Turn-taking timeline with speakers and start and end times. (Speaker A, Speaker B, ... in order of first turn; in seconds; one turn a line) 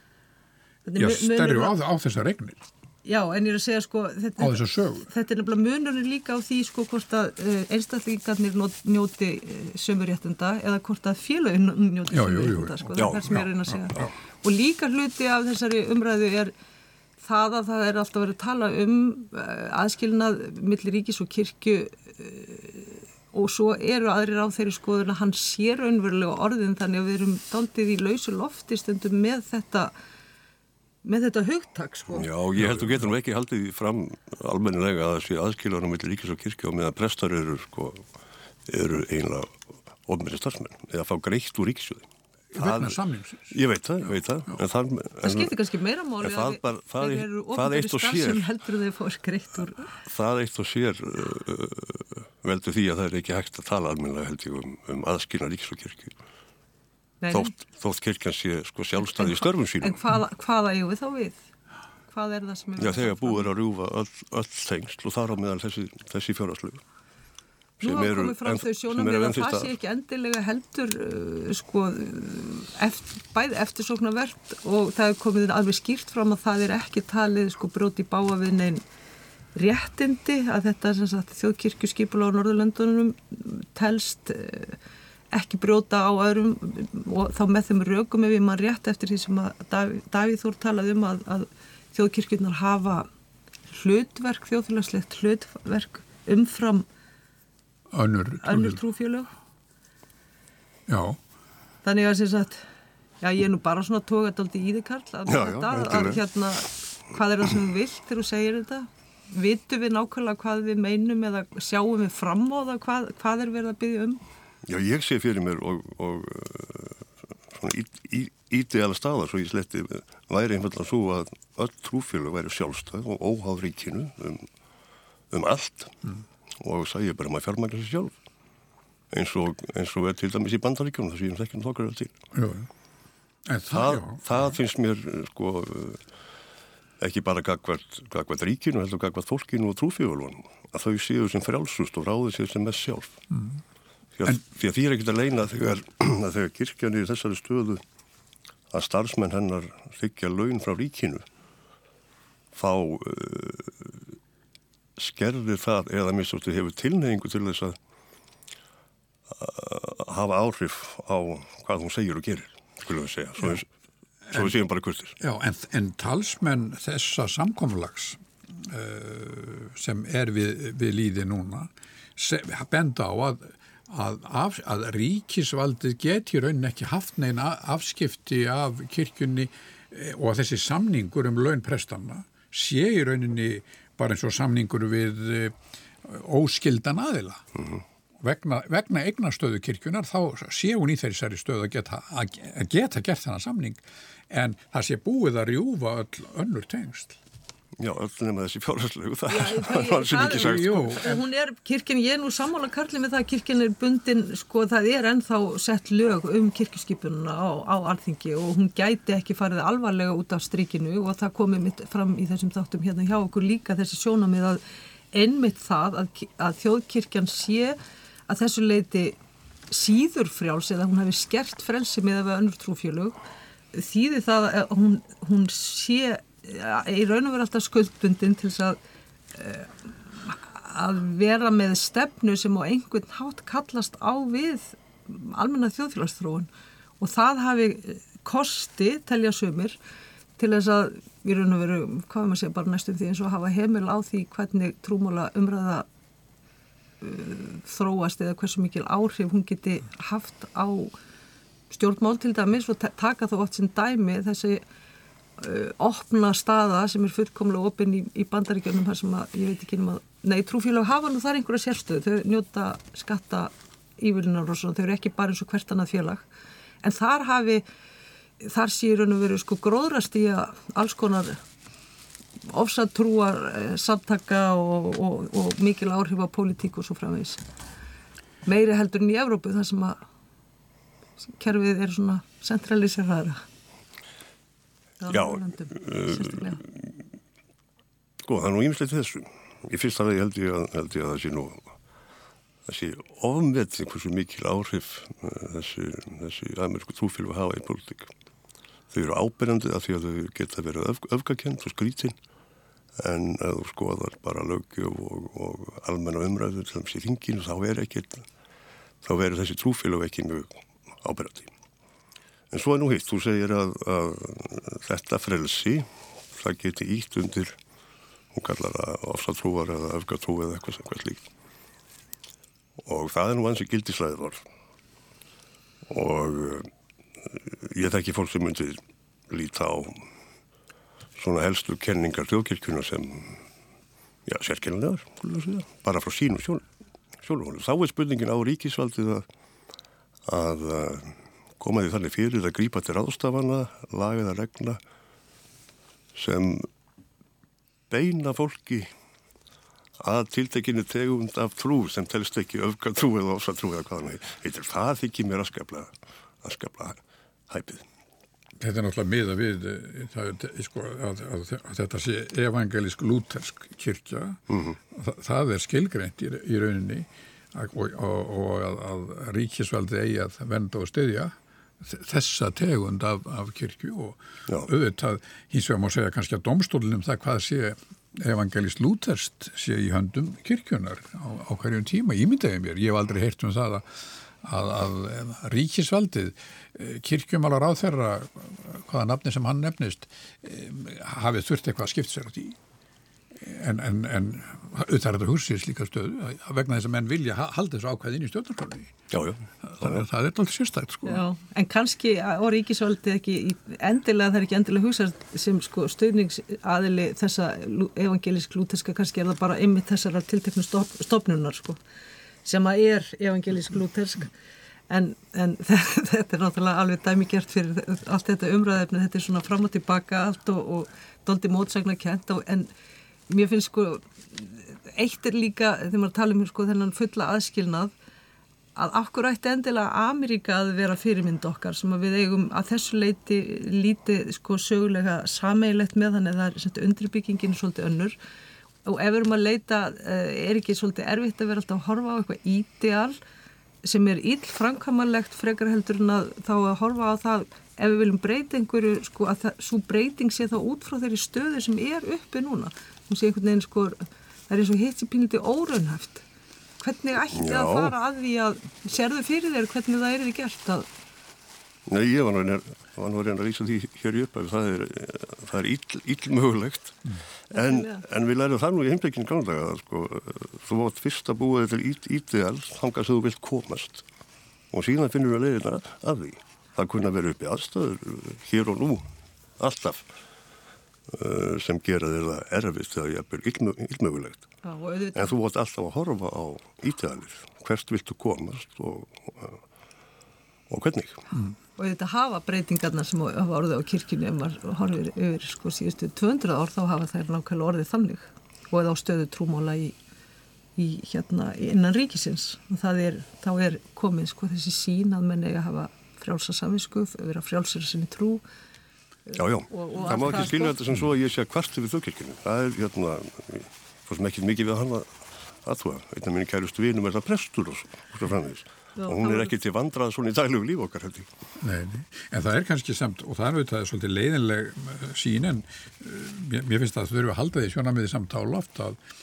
Speaker A: 0.8-1.8
Speaker B: 1.0-2.6
Speaker A: 3.0-16.5
Speaker B: 4.4-5.1
Speaker B: 12.1-14.1
Speaker C: 13.0-13.3
Speaker A: 17.2-29.9
Speaker A: 31.0-32.3
Speaker C: 32.1-38.1
Speaker B: 32.6-32.9
Speaker C: 38.7-39.5
Speaker C: 40.0-43.0
Speaker B: 42.5-43.5
Speaker C: 43.5-45.5
Speaker A: 45.2-49.9
Speaker C: 46.2-48.5
Speaker C: 50.0-56.1
Speaker A: 57.2-57.5
Speaker C: 57.3-60.0
Speaker A: 59.2-61.4
Speaker A: 62.1-63.5
Speaker C: 62.8-66.8
Speaker C: 67.8-69.7
Speaker A: 67.8-78.8
Speaker A: 79.5-84.8
Speaker A: 85.3-93.1
Speaker A: 93.7-96.9
Speaker B: 97.9-98.8
Speaker A: 98.4-99.3
Speaker B: 100.9-101.2
Speaker A: 101.8-102.6
Speaker A: 103.2-114.2
Speaker C: 105.3-106.2
Speaker C: 114.7-124.5
Speaker C: 125.3-128.2
Speaker C: 129.1-132.2
Speaker B: 132.3-132.7
Speaker B: 133.5-134.2
Speaker C: 133.7-136.0
Speaker C: 137.0-143.2
Speaker C: 144.2-147.8
Speaker C: 148.7-151.2
Speaker C: 152.5-154.0
Speaker C: 155.0-157.8
Speaker C: 159.3-163.7
Speaker C: 164.3-165.2
Speaker B: 165.2-187.4
Speaker B: 188.2-197.2
Speaker C: 197.8-201.0
Speaker A: 199.3-217.8
Speaker B: 200.3-201.2
Speaker A: 218.3-219.2
Speaker A: 219.7-223.2
Speaker A: 223.7-228.8
Speaker A: 229.3-236.5
Speaker A: 237.0-239.8
Speaker A: 240.4-245.9
Speaker A: 247.0-250.9
Speaker A: 251.7-254.6
Speaker A: 255.4-266.3
Speaker A: 266.8-267.6
Speaker A: 268.4-271.4
Speaker A: 272.5-277.4
Speaker A: 278.4-280.0
Speaker A: 281.2-283.4
Speaker A: 285.0-286.6
Speaker C: 285.1-286.9
Speaker C: 288.2-291.7
Speaker C: 292.7-298.1
Speaker C: 298.9-302.2
Speaker C: 303.0-308.2
Speaker C: 309.0-311.5
Speaker C: 312.5-317.6
Speaker C: 318.3-321.2
Speaker C: 322.8-324.4
Speaker C: 325.9-326.7
Speaker C: 327.2-330.0
Speaker C: 331.2-333.4
Speaker C: 334.3-336.6
Speaker C: 337.2-339.2
Speaker C: 340.3-344.8
Speaker C: 346.1-346.7
Speaker C: 347.9-348.9
Speaker C: 350.0-357.8
Speaker B: 358.6-392.6
Speaker C: 364.5-364.8
Speaker B: 393.4-398.9
Speaker C: 399.1-400.1
Speaker B: 399.6-401.2
Speaker A: 401.1-411.8
Speaker A: 412.4-414.3
Speaker A: 414.9-422.7
Speaker A: 423.3-427.9
Speaker A: 428.8-438.2
Speaker A: 438.9-443.2
Speaker A: 443.8-456.2
Speaker A: 456.8-460.9
Speaker C: 457.3-457.9
Speaker C: 461.9-474.1
Speaker A: 467.6-468.0
Speaker C: 474.7-479.1
Speaker C: 479.6-480.1
Speaker C: 481.1-484.5
Speaker A: 484.6-485.4
Speaker C: 485.1-489.6
Speaker C: 490.7-491.3
Speaker A: 491.8-499.9
Speaker A: 500.8-508.4
Speaker A: 509.3-510.8
Speaker C: 509.4-521.3
Speaker A: 519.0-519.6
Speaker B: 521.6-529.0